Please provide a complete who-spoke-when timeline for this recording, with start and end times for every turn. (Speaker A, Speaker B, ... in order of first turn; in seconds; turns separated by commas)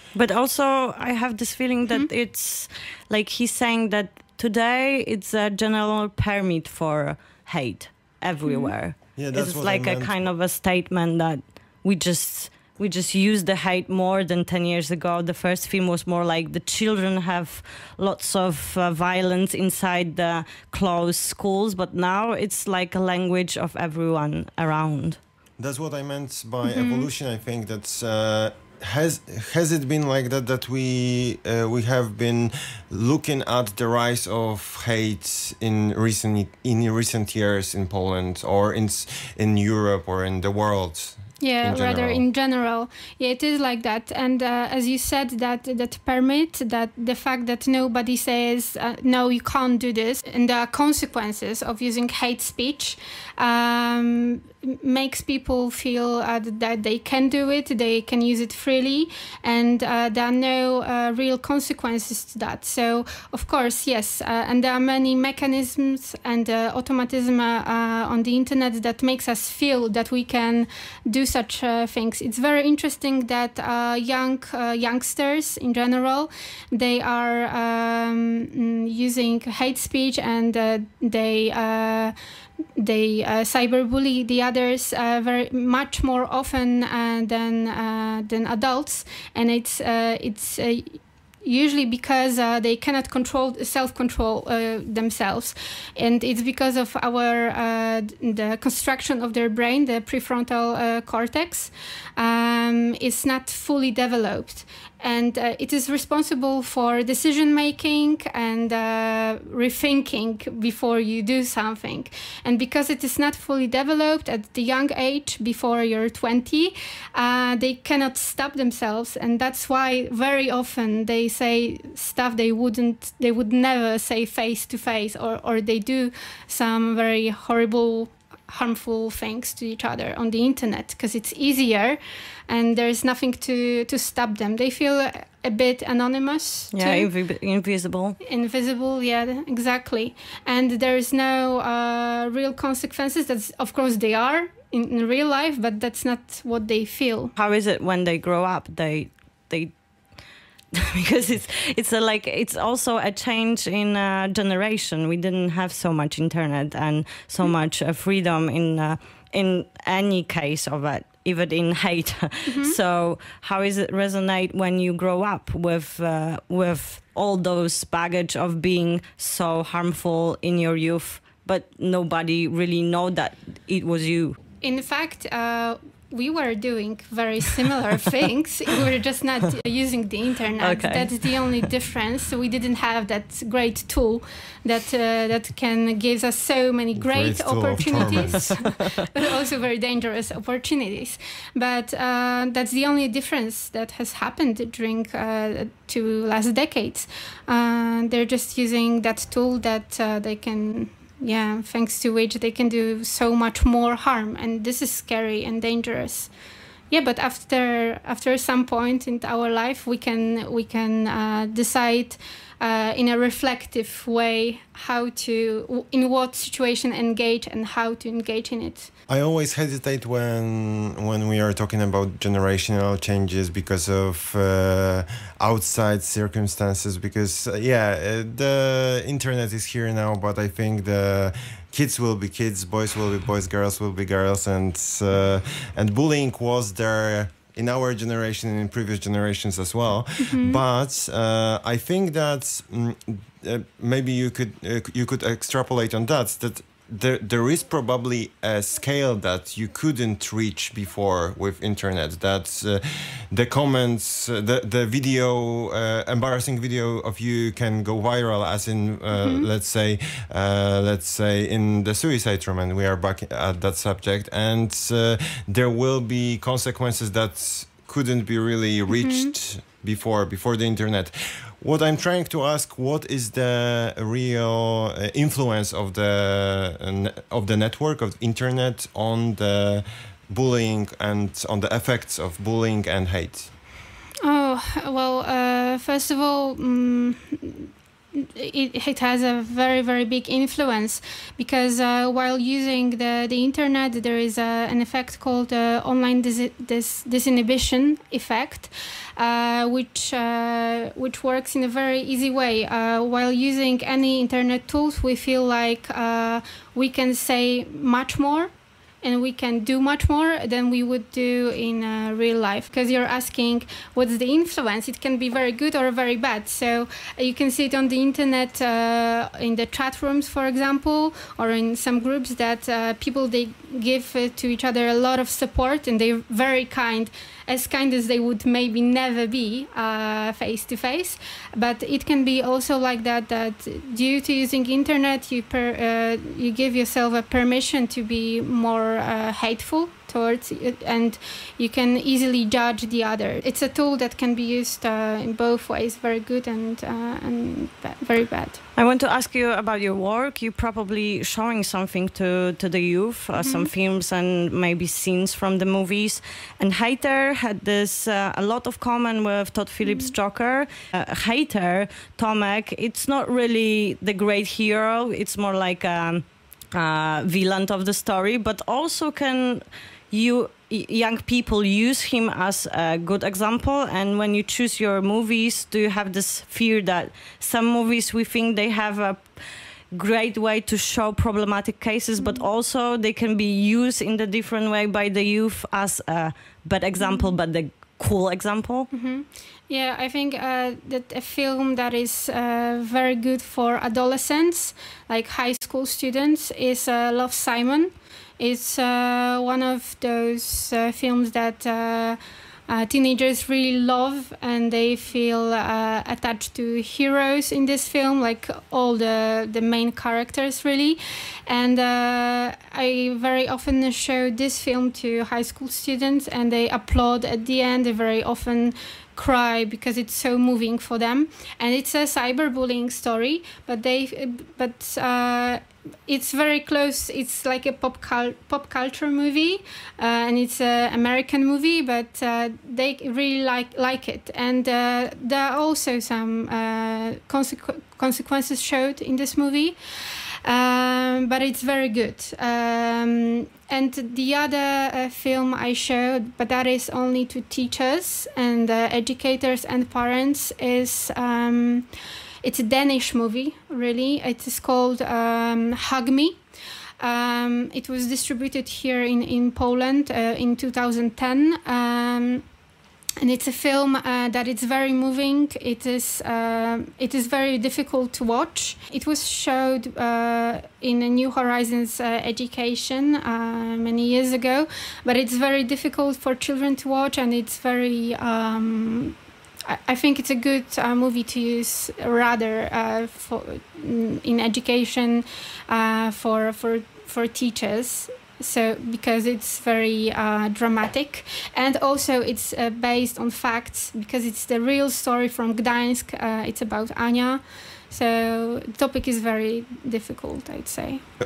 Speaker A: 0.1-25.2, Speaker B: 8.5-8.7, Speaker C: 9.2-10.1, Speaker C: 25.6-42.2, Speaker B: 26.6-27.1, Speaker B: 41.4-82.1, Speaker B: 82.8-137.1, Speaker A: 136.7-138.2, Speaker B: 138.2-147.3, Speaker A: 147.4-149.7, Speaker A: 150.7-174.4, Speaker B: 162.4-162.8, Speaker B: 174.6-206.3, Speaker A: 180.6-181.1, Speaker C: 186.9-188.6, Speaker A: 188.6-188.9, Speaker B: 206.9-218.9, Speaker C: 219.1-283.5, Speaker B: 240.3-240.6, Speaker B: 259.1-259.5, Speaker B: 268.9-269.3, Speaker B: 284.2-308.5, Speaker B: 309.0-348.6, Speaker A: 348.8-379.3, Speaker B: 353.3-353.7, Speaker B: 359.8-360.1, Speaker A: 379.9-388.9, Speaker B: 382.2-382.5, Speaker B: 387.0-387.3, Speaker B: 388.9-439.8, Speaker B: 440.4-451.9, Speaker B: 452.4-456.4, Speaker B: 457.0-462.4, Speaker B: 463.2-479.1, Speaker B: 479.7-501.0